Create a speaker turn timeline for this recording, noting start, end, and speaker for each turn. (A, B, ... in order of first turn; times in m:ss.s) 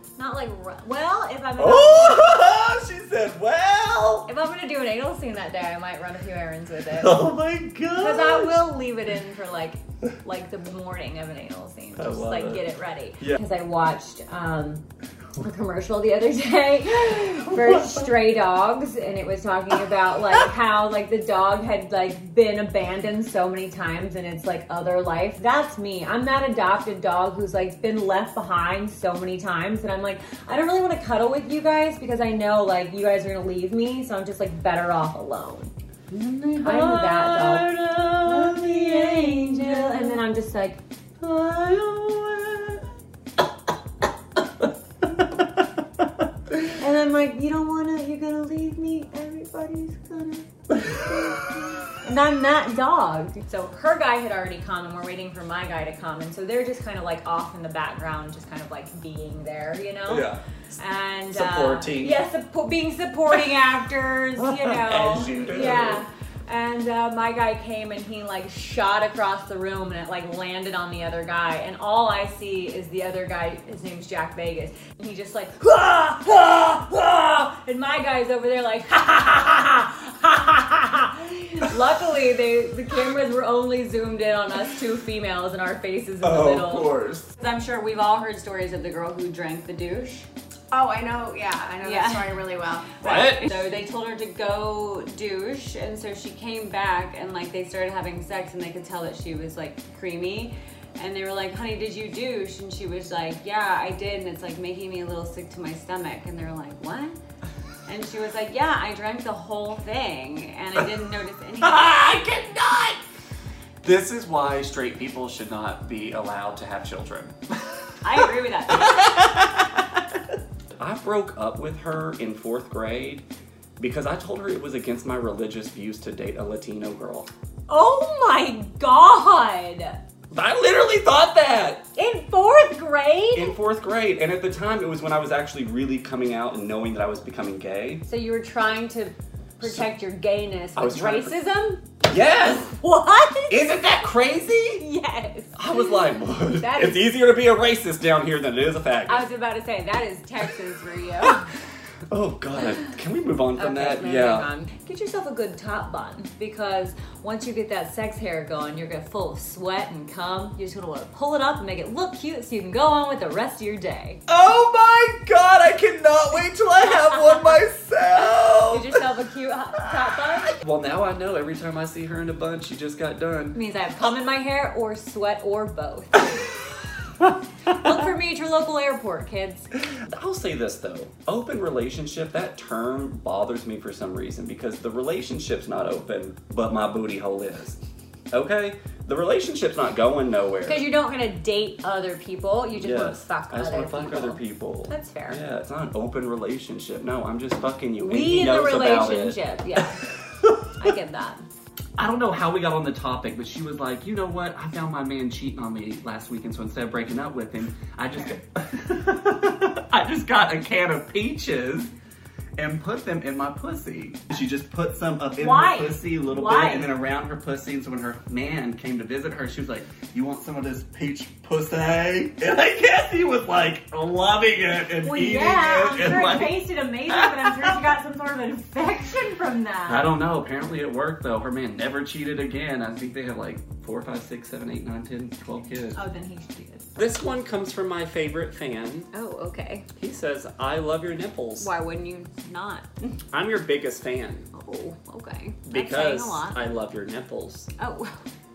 0:00.2-0:02.3 A
0:01.6-0:04.3 B
0:04.3-0:07.3 A
0:06.9-0:08.7 B
0:08.0-0:14.8 A
0:12.0-0:12.6 B
0:15.4-0:35.7 A
0:17.2-0:18.1 B
0:36.1-0:40.2 B
0:36.6-0:40.8 A
0:41.2-0:42.8 B
0:46.7-1:30.3 A
1:00.1-1:00.4 B
1:01.3-1:02.2 B
1:04.4-1:06.0 B
1:26.2-1:27.3 B
1:30.7-1:33.2 C
1:31.8-1:32.5 A
1:33.0-1:33.6 B
1:33.0-1:47.2 A
1:47.9-1:51.9 A
1:51.6-1:53.0 B
1:53.8-1:57.4 B
1:58.0-1:59.2 A
1:58.7-1:59.8 B
2:00.8-2:03.2 B
2:03.8-2:07.3 B
2:07.7-2:10.0 A
2:10.3-2:11.9 B
2:12.0-2:13.6 A
2:13.3-2:18.0 B
2:18.1-2:21.8 A
2:20.8-2:21.4 B
2:22.0-2:22.8 B
2:22.8-2:23.8 A
2:23.5-2:24.9 B
2:24.8-2:27.1 A
2:25.6-2:29.3 B
2:29.1-2:31.5 A
2:32.1-2:34.5 B
2:33.6-2:44.2 A
2:44.3-2:49.1 B
2:47.1-2:47.5 A
2:48.7-2:50.5 A
2:50.5-2:53.6 B
2:53.5-2:56.5 A
2:57.7-2:59.7 A
2:59.8-3:07.8 B
3:08.3-3:10.9 B
3:10.7-3:15.4 A
3:12.7-3:20.7 B
3:18.0-3:20.1 A
3:20.8-3:21.4 A
3:22.0-3:31.9 B
3:32.6-3:47.9 B
3:35.4-3:36.9 A
3:45.0-3:50.1 A
3:49.9-3:56.0 B
3:55.7-3:56.9 A
3:57.0-3:59.1 B
3:59.1-3:59.9 A
4:00.0-4:01.7 B
4:01.6-4:03.2 A
4:03.3-4:04.5 B
4:04.5-4:06.6 A
4:05.7-4:07.7 B
4:07.8-4:08.2 A